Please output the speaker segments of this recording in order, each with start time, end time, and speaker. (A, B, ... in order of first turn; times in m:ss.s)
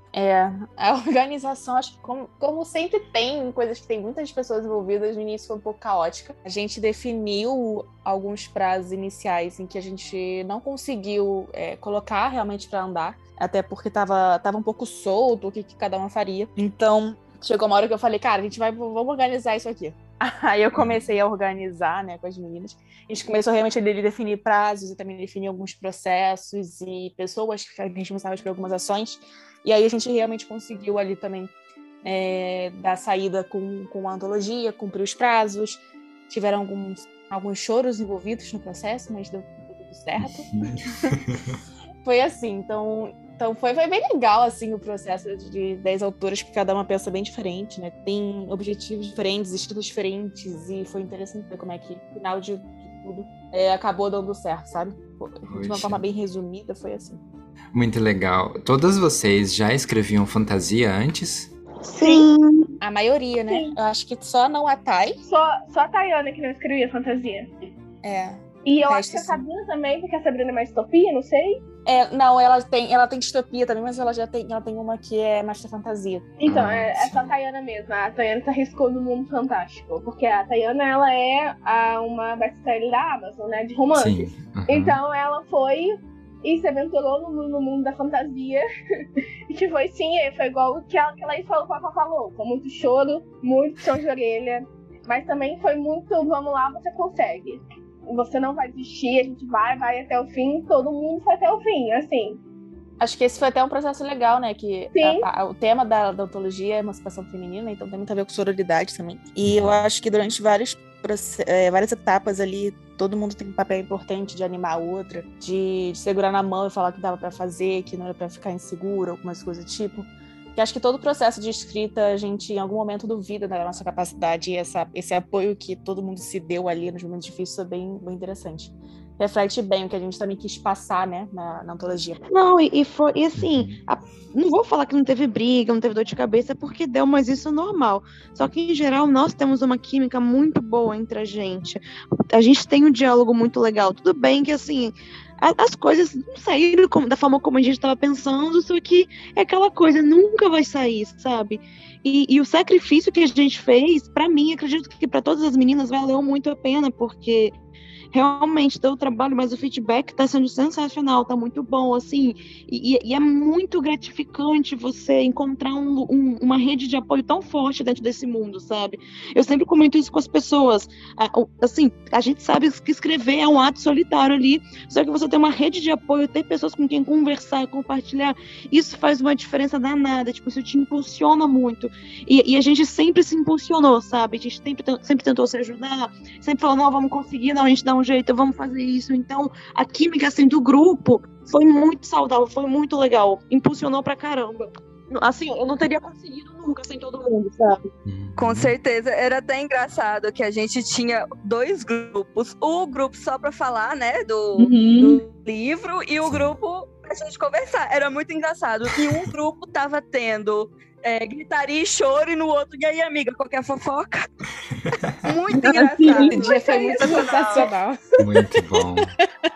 0:00.1-0:31.5 A
0:20.7-0:21.1 B
0:32.0-0:41.2 A
0:40.2-0:41.4 B
0:42.0-0:57.2 A
0:55.5-0:56.0 B
0:57.7-1:01.5 B
1:01.8-1:02.8 C
1:02.0-1:02.3 D
1:02.8-1:05.2 A
1:05.2-1:07.7 D
1:08.0-1:09.4 A
1:08.6-1:11.6 D
1:11.8-1:16.3 A
1:16.4-1:28.6 D
1:16.5-1:17.3 B
1:23.9-1:25.0 B
1:29.5-1:42.4 D
1:43.0-2:12.2 A
1:45.0-1:45.2 D
1:49.4-1:49.8 B
2:12.3-2:37.6 C
2:13.4-2:13.8 B
2:38.1-3:17.8 C
3:18.0-3:18.7 B
3:18.4-3:34.3 E
3:24.6-3:25.2 C
3:26.2-3:26.6 B
3:35.2-3:37.7 E
3:35.5-3:36.4 C
3:36.3-3:38.8 A
3:36.6-3:37.3 D
3:38.2-3:39.1 B